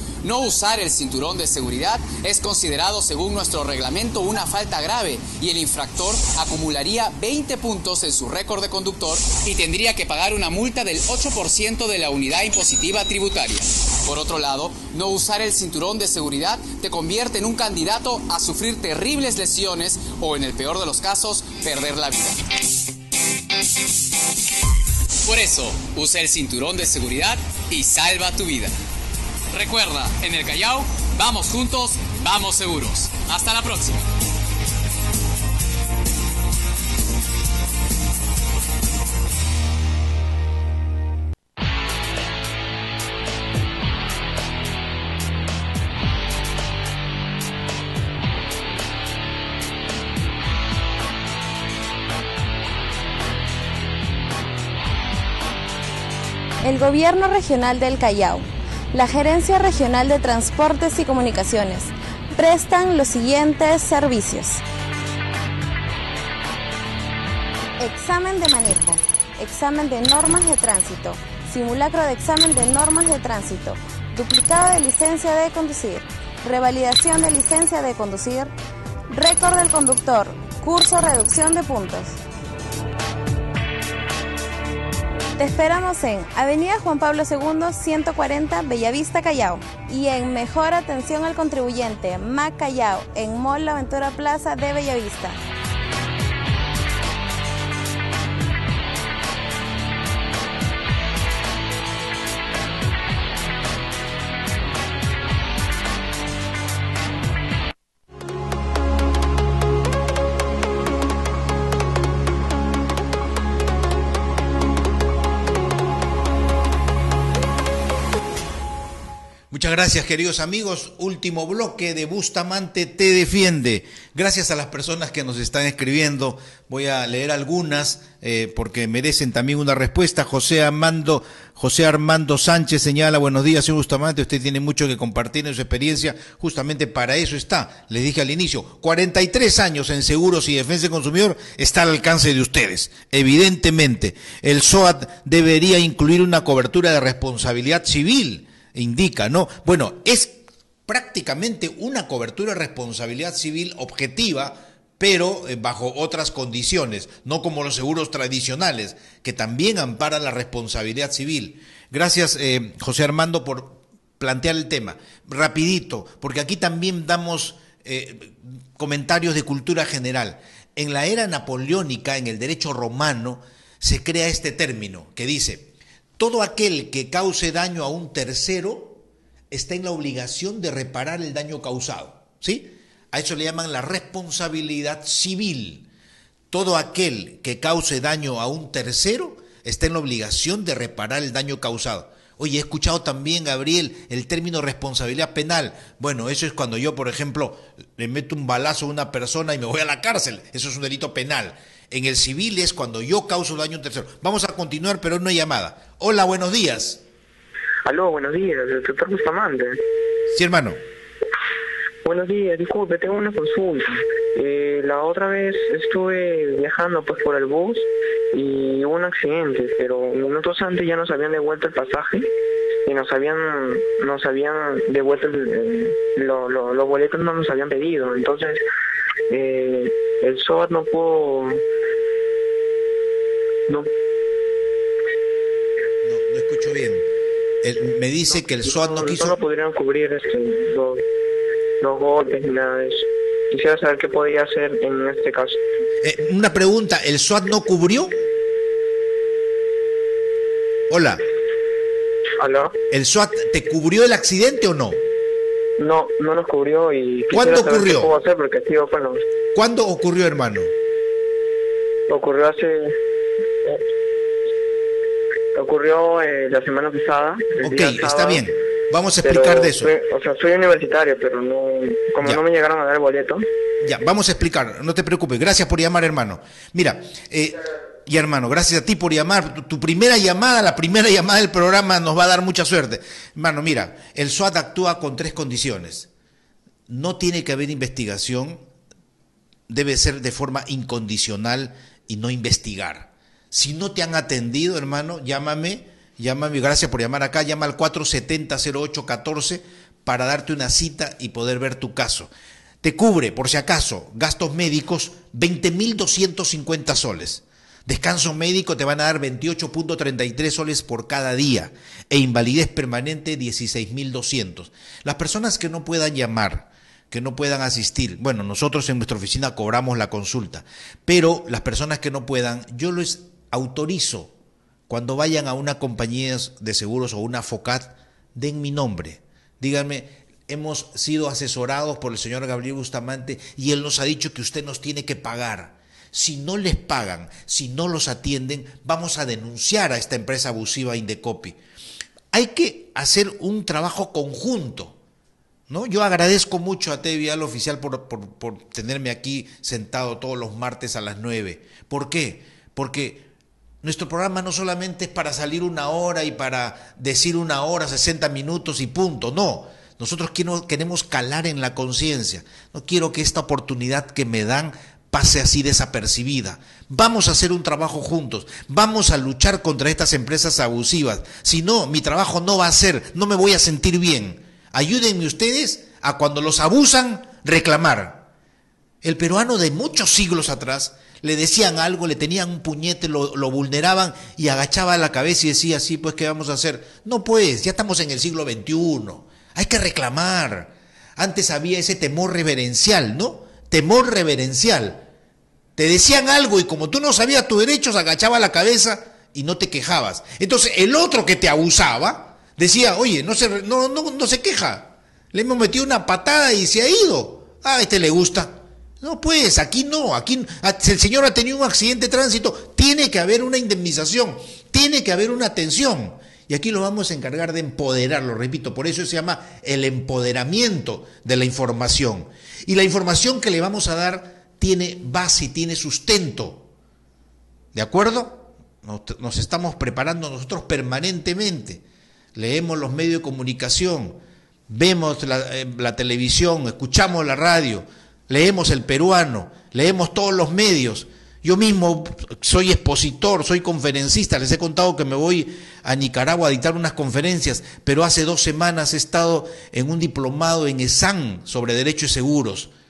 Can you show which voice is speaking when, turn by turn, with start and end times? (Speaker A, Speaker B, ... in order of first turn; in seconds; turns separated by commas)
Speaker A: 0.2-22.4, Speaker A: 25.2-28.7, Speaker A: 29.5-34.1, Speaker B: 56.6-64.6, Speaker B: 67.8-78.5, Speaker B: 79.1-82.2, Speaker B: 85.4-95.4, Speaker C: 119.5-185.9, Speaker C: 186.5-207.0, Speaker D: 207.8-209.8, Speaker C: 210.3-210.8, Speaker D: 212.0-222.3, Speaker D: 222.9-228.6, Speaker D: 229.3-231.6, Speaker C: 236.0-237.1, Speaker C: 237.6-239.4, Speaker D: 238.5-241.0, Speaker D: 241.8-245.6, Speaker C: 246.0-248.2, Speaker C: 250.9-251.2, Speaker D: 252.4-252.8, Speaker C: 252.9-255.0, Speaker D: 255.8-259.2, Speaker C: 257.3-258.1, Speaker C: 259.5-260.7, Speaker D: 262.1-263.0, Speaker D: 265.6-268.5, Speaker C: 267.6-269.9, Speaker D: 269.2-273.4, Speaker C: 273.8-286.1, Speaker C: 286.9-288.6, Speaker C: 289.7-302.3, Speaker C: 302.8-324.3, Speaker C: 324.9-341.6, Speaker C: 342.3-345.0, Speaker C: 345.7-353.3, Speaker C: 353.8-378.3, Speaker C: 379.0-395.1, Speaker C: 395.8-426.7, Speaker C: 427.7-431.8, Speaker C: 432.4-452.7